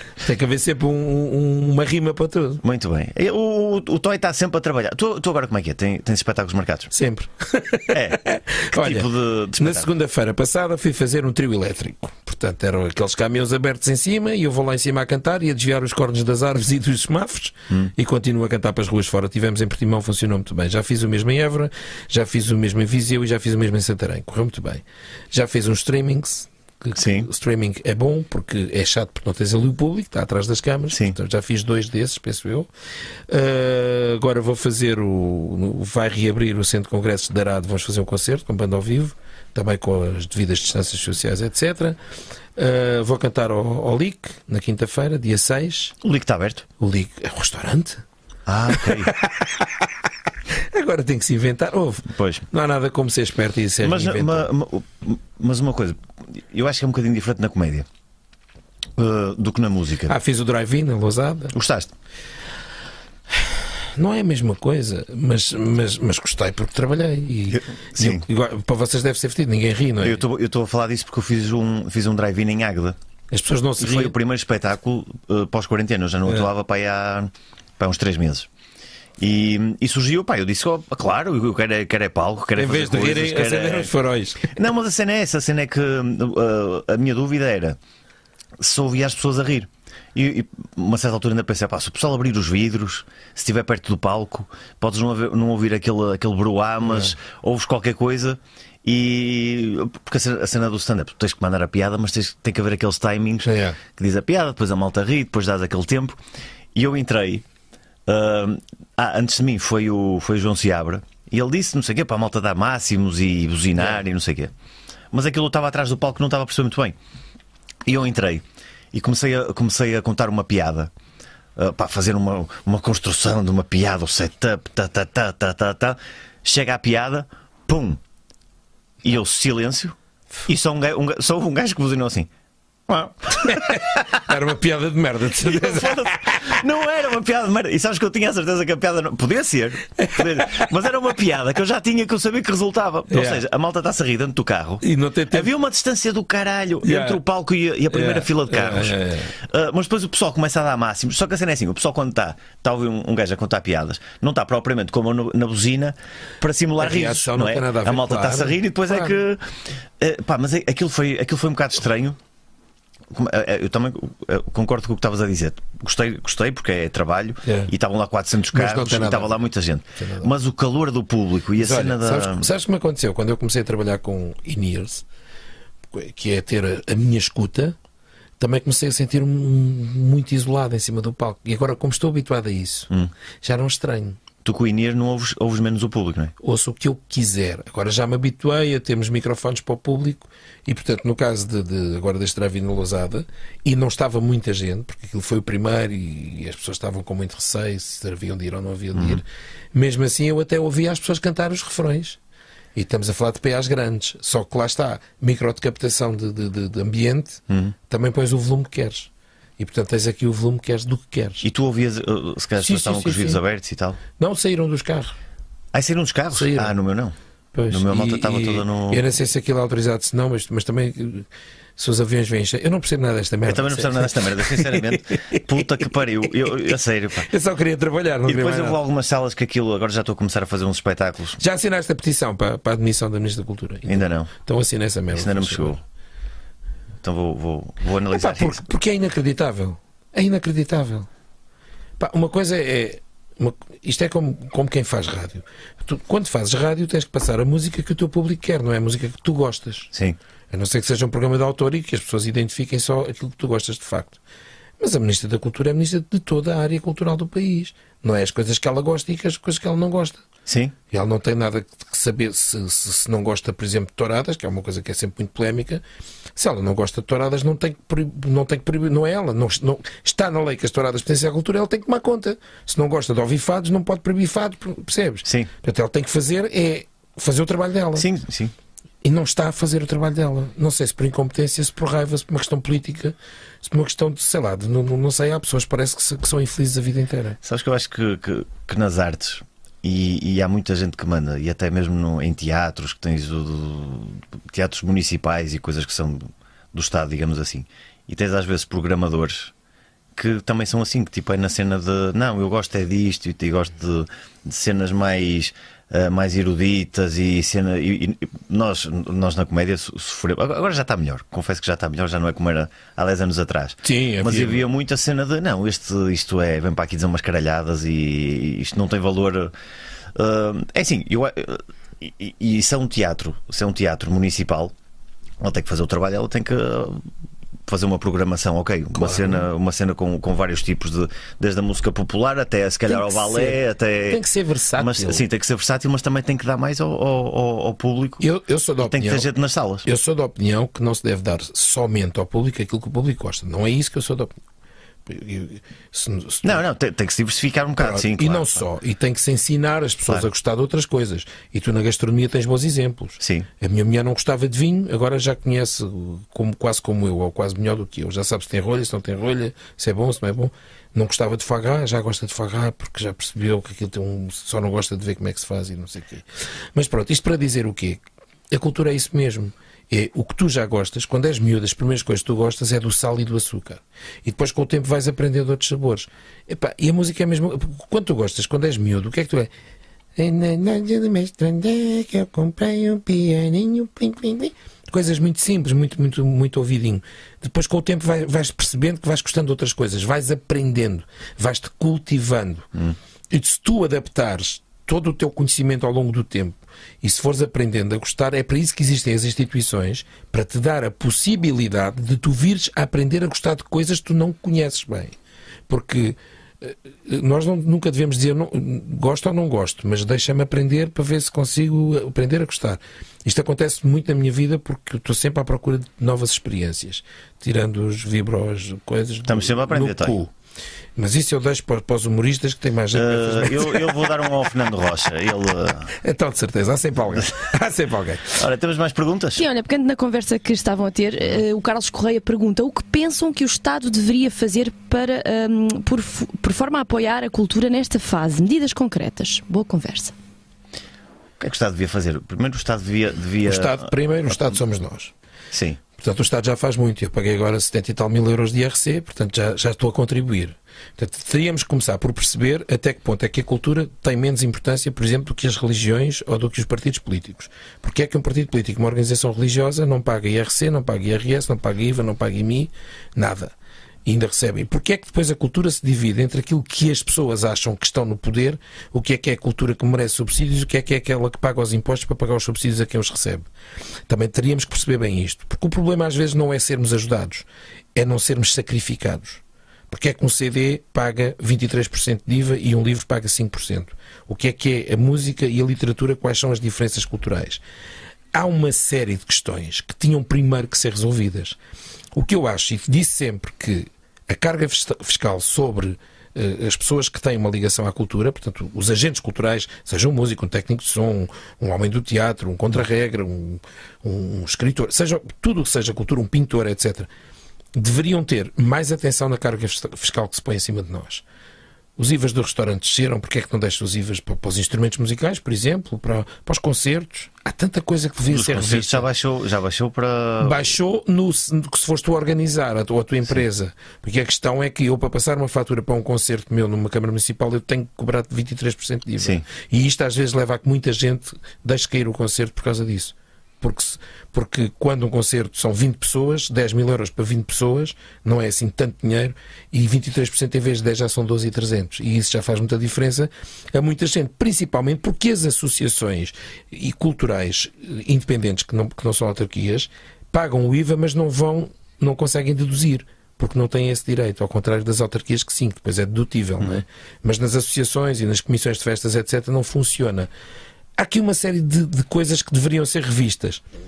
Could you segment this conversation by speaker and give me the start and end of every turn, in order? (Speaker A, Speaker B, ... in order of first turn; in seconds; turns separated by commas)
Speaker A: 0.2-2.6, Speaker B: 2.6-6.9, Speaker A: 6.9-32.7, Speaker B: 7.9-9.9, Speaker B: 27.0-27.3, Speaker B: 30.9-31.2, Speaker A: 33.3-42.0, Speaker A: 42.6-46.0, Speaker B: 46.0-46.7, Speaker A: 46.8-48.0, Speaker B: 48.5-49.2, Speaker A: 48.7-49.9, Speaker A: 50.5-54.5, Speaker B: 52.1-52.5, Speaker B: 53.8-57.9, Speaker B: 59.0-60.2, Speaker A: 60.1-61.5, Speaker B: 61.5-61.9, Speaker A: 63.4-70.2, Speaker B: 67.5-68.3, Speaker B: 70.0-73.0, Speaker A: 73.3-74.2, Speaker B: 73.8-78.5, Speaker B: 79.2-83.9, Speaker A: 82.6-84.6, Speaker B: 84.5-87.8, Speaker B: 88.6-106.2, Speaker A: 96.9-97.1, Speaker A: 103.4-103.8, Speaker B: 106.7-107.5, Speaker B: 108.1-114.5, Speaker B: 115.1-117.0, Speaker B: 117.9-120.9, Speaker B: 121.6-128.0, Speaker B: 129.0-129.9, Speaker B: 130.5-132.3, Speaker B: 132.9-134.2, Speaker A: 133.4-136.4, Speaker B: 135.4-162.2, Speaker A: 140.0-140.4, Speaker A: 143.1-143.4, Speaker A: 144.8-145.5, Speaker A: 146.8-147.2, Speaker A: 147.9-149.3, Speaker A: 156.8-159.2, Speaker B: 163.1-172.5, Speaker A: 167.4-167.7, Speaker A: 168.5-169.3, Speaker A: 170.0-170.3, Speaker A: 171.6-175.1, Speaker A: 175.9-177.8, Speaker A: 178.4-182.9, Speaker A: 183.4-184.2, Speaker B: 184.4-186.3, Speaker A: 186.4-202.2, Speaker B: 198.9-199.2, Speaker A: 202.8-211.5, Speaker B: 207.5-207.8, Speaker B: 211.4-214.0, Speaker A: 212.6-213.4, Speaker A: 214.2-215.2, Speaker B: 215.7-217.2, Speaker A: 216.3-216.7, Speaker A: 217.5-225.4, Speaker B: 217.7-219.0, Speaker B: 223.5-227.3, Speaker A: 227.2-228.8, Speaker B: 228.2-231.4, Speaker A: 231.4-235.8, Speaker B: 233.9-234.3, Speaker B: 235.1-235.8, Speaker B: 237.0-238.6, Speaker A: 238.1-241.1, Speaker A: 242.0-249.9, Speaker A: 250.5-254.2, Speaker A: 254.8-260.2, Speaker B: 260.5-260.8, Speaker A: 260.9-265.8, Speaker A: 266.4-278.1, Speaker B: 275.2-275.5, Speaker B: 278.0-278.5, Speaker A: 279.0-287.4, Speaker B: 287.4-299.5, Speaker B: 300.2-319.5, Speaker A: 313.8-314.7, Speaker B: 320.1-324.7, Speaker B: 325.4-327.1, Speaker B: 327.7-334.2, Speaker A: 328.9-329.5, Speaker A: 332.9-335.2, Speaker B: 334.8-338.2, Speaker A: 338.2-339.3, Speaker B: 338.8-339.9, Speaker A: 339.8-344.4, Speaker A: 345.1-346.6, Speaker B: 346.4-348.6, Speaker A: 347.8-379.5, Speaker B: 353.2-353.5, Speaker A: 380.2-392.7, Speaker A: 393.3-405.2, Speaker A: 405.7-420.3, Speaker B: 419.3-420.2, Speaker A: 421.0-424.1, Speaker B: 422.9-425.9, Speaker A: 426.0-428.4, Speaker B: 428.3-429.4, Speaker C: 429.4-440.1, Speaker B: 441.4-443.8, Speaker A: 443.4-445.1, Speaker B: 445.5-445.8, Speaker A: 446.0-463.5, Speaker A: 464.1-473.5, Speaker A: 474.1-487.6, Speaker A: 488.3-491.6, Speaker A: 492.1-507.1, Speaker A: 507.8-511.2, Speaker A: 512.0-519.1, Speaker B: 518.3-520.7, Speaker A: 520.4-560.3, Speaker B: 529.2-529.5, Speaker A: 561.0-563.6